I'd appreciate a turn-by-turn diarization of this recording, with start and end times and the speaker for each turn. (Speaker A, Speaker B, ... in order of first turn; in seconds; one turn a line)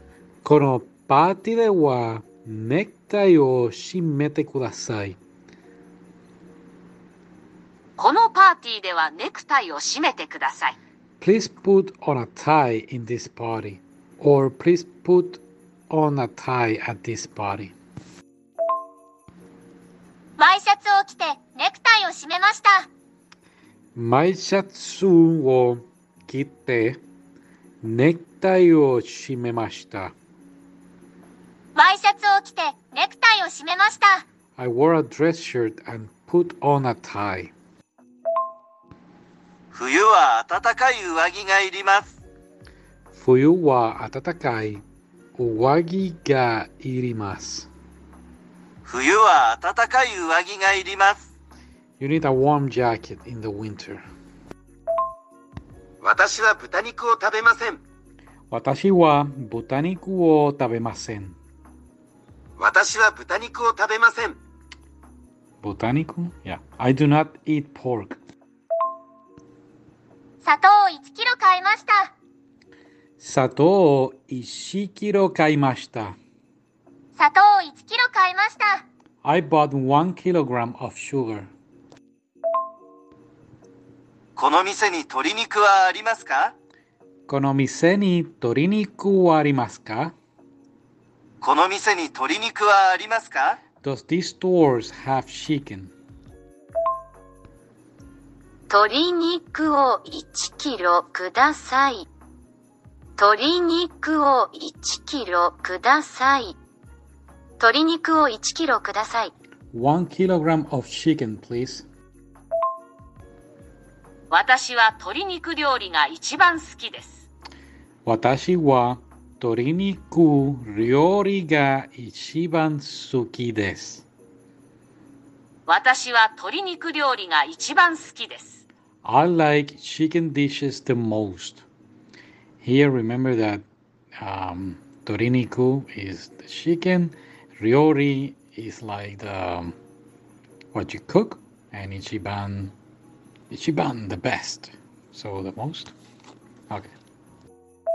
Speaker A: 0.4-5.2
Speaker B: 8.0-10.8
Speaker A: 11.2-17.7
Speaker C: 20.4-22.9
Speaker A: 24.0-27.0
Speaker A: 27.8-30.1
Speaker C: 31.8-34.2
Speaker A: 34.6-37.5
Speaker D: 39.7-42.1
Speaker A: 43.1-44.8
Speaker A: 45.4-47.7
Speaker D: 48.9-51.3
Speaker A: 52.0-54.0
Speaker D: 56.0-57.8
Speaker A: 58.5-61.4
Speaker D: 62.6-64.4
Speaker A: 65.6-68.2
Speaker C: 70.4-72.1
Speaker A: 73.2-76.2
Speaker C: 77.2-78.8
Speaker A: 79.2-81.5
Speaker D: 84.4-86.5
Speaker A: 87.3-90.1
Speaker D: 91.4-93.6
Speaker A: 93.8-95.9
Speaker E: 98.7-102.1
Speaker E: 103.2-106.6
Speaker E: 107.6-109.3
Speaker A: 109.7-111.9
Speaker B: 114.3-117.3
Speaker A: 118.0-124.0
Speaker B: 125.7-128.6
Speaker A: 129.0-131.6
Speaker A: 132.6-133.7
Speaker A: 134.2-139.8
Speaker A: 140.7-142.7
Speaker A: 143.5-145.9